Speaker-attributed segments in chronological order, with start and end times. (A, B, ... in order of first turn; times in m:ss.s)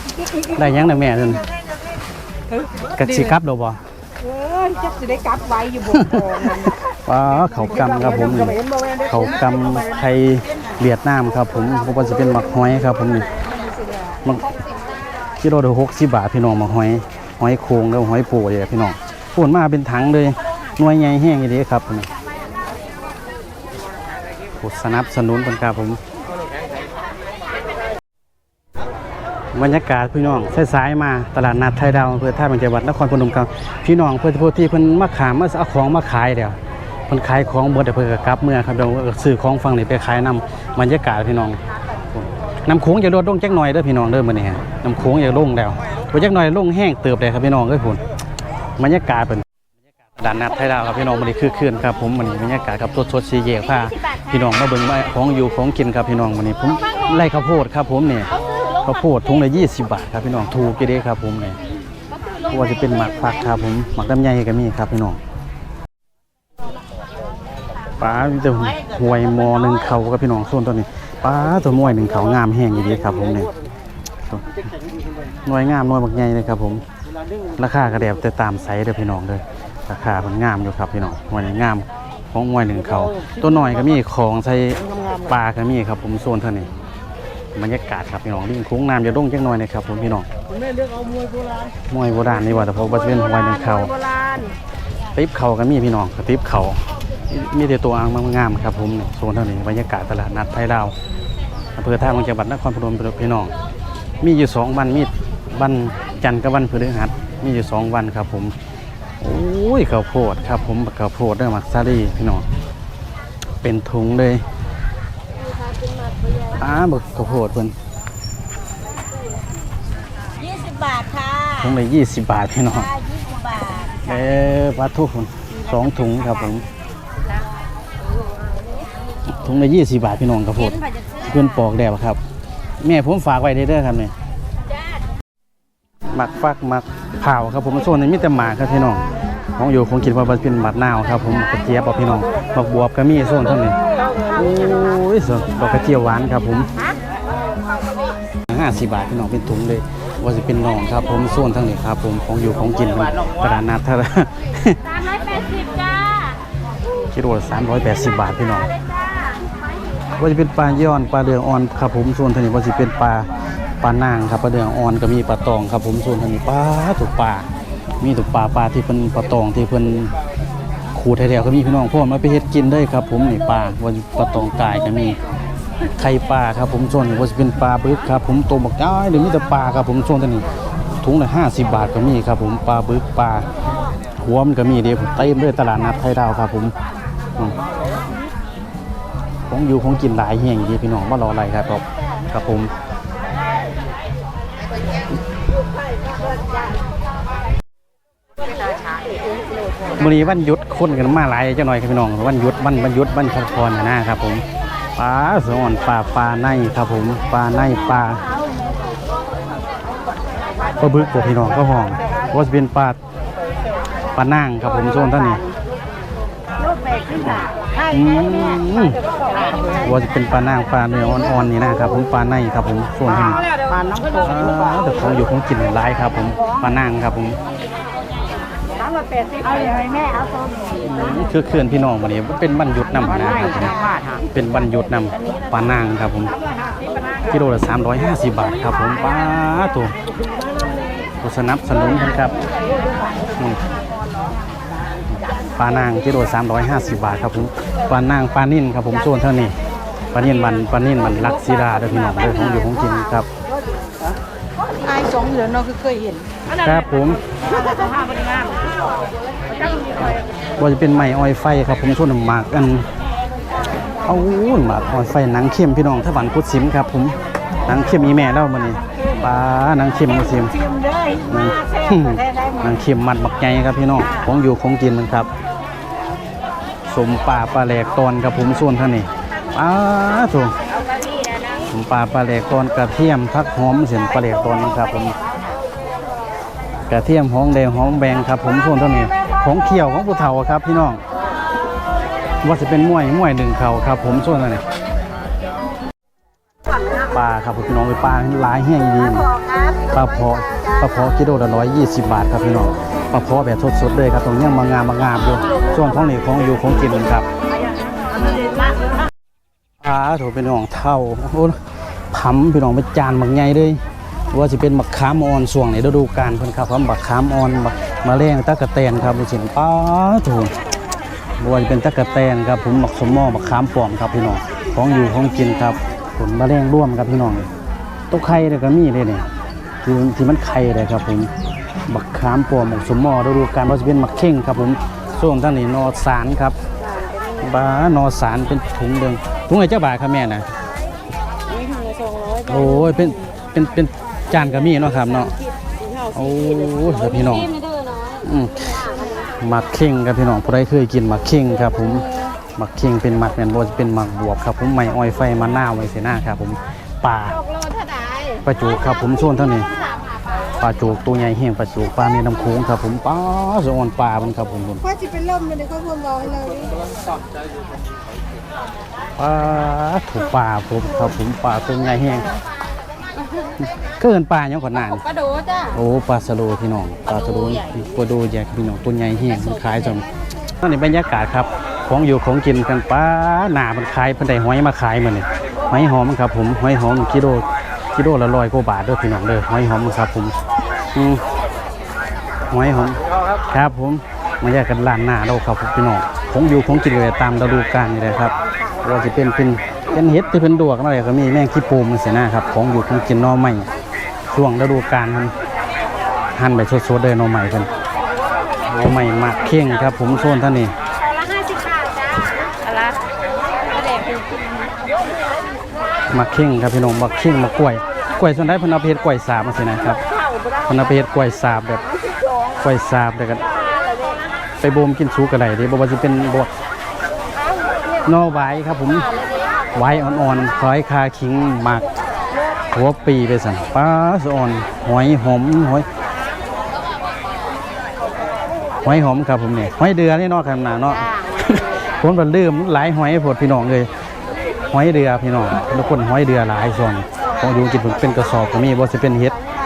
0:00.5-0:01.5 A
0:02.9-0:03.8 A
0:04.5-0:05.7 B
0:05.7-0:13.3 A
0:15.4-0:22.1 A
0:24.6-0:26.0 A
0:29.5-0:36.6 A
0:37.1-0:41.6 A
0:42.1-0:48.0 A
0:48.8-0:49.4 A
0:50.2-0:58.3 A
0:58.8-1:01.6 A
1:02.4-1:05.2 A
1:08.0-1:13.5 A
1:14.3-1:14.6 A
1:15.4-1:16.8 A
1:17.6-1:26.7 A
1:27.6-1:30.3 A
1:31.9-1:33.9 A
1:35.1-1:40.9 A
1:41.8-1:43.5 A
1:44.2-1:48.5 A
1:49.2-1:52.4 A
1:53.6-1:54.4 A
1:56.5-1:57.7 A
2:00.4-2:01.4 B
2:01.3-2:03.0 A
2:03.2-2:03.8 B
2:03.9-2:06.6 A
2:09.3-2:12.2 A
2:12.8-2:14.1 A
2:16.1-2:23.8 A
2:24.3-2:26.7 A
2:28.5-2:34.9 A
2:37.1-2:38.7 A
2:40.2-2:43.3 A
2:43.8-2:47.5 A
2:48.0-2:50.1 A
2:50.9-2:55.2 A
2:56.0-3:03.5 A
3:04.2-3:06.7 A
3:09.5-3:12.7 A
3:20.0-3:24.4 A
3:25.0-3:28.3 A
3:30.8-3:33.0 A
3:34.1-3:35.4 A
3:37.2-3:39.0 A
3:39.7-3:43.4 A
3:44.1-3:47.4 A
3:49.4-3:50.1 B
3:50.8-3:56.4 A
3:57.3-3:59.9 A
4:01.2-4:02.4 A
4:05.6-4:09.5 A
4:10.1-4:13.3 A
4:14.8-4:16.2 B
4:16.5-4:17.2 A
4:17.7-4:18.4 B
4:20.0-4:22.9 A
4:24.0-4:35.3 A
4:36.9-4:40.6 A
4:41.7-4:45.2 A
4:46.9-4:51.0 A
4:52.4-4:54.6 A
4:57.1-5:07.3 A
4:59.4-4:59.7 B
5:09.8-5:11.6 A
5:12.1-5:20.5 A
5:21.4-5:27.5 A
5:28.1-5:29.3 A
5:29.8-5:31.3 A
5:31.9-5:36.6 A
5:37.4-5:40.5 A
5:41.9-5:42.2 B
5:42.4-5:45.3 A
5:46.1-5:47.5 A
5:48.2-5:57.4 A
5:58.4-5:59.7 A
6:00.6-6:04.9 A
6:05.4-6:06.3 B
6:09.2-6:12.3 A
6:13.6-6:15.0 A
6:15.6-6:20.0 A
6:20.6-6:30.4 A
6:30.9-6:31.2 A
6:32.5-6:43.7 A
6:44.3-6:45.3 A
6:46.3-6:47.7 A
6:48.7-6:50.7 A
6:51.3-6:51.8 B
6:56.1-7:00.0 A
7:00.6-7:01.8 A
7:02.6-7:03.4 A
7:04.6-7:06.5 A
7:08.0-7:09.1 A
7:09.7-7:11.8 A
7:12.7-7:15.9 A
7:18.8-7:23.9 A
7:24.7-7:29.4 A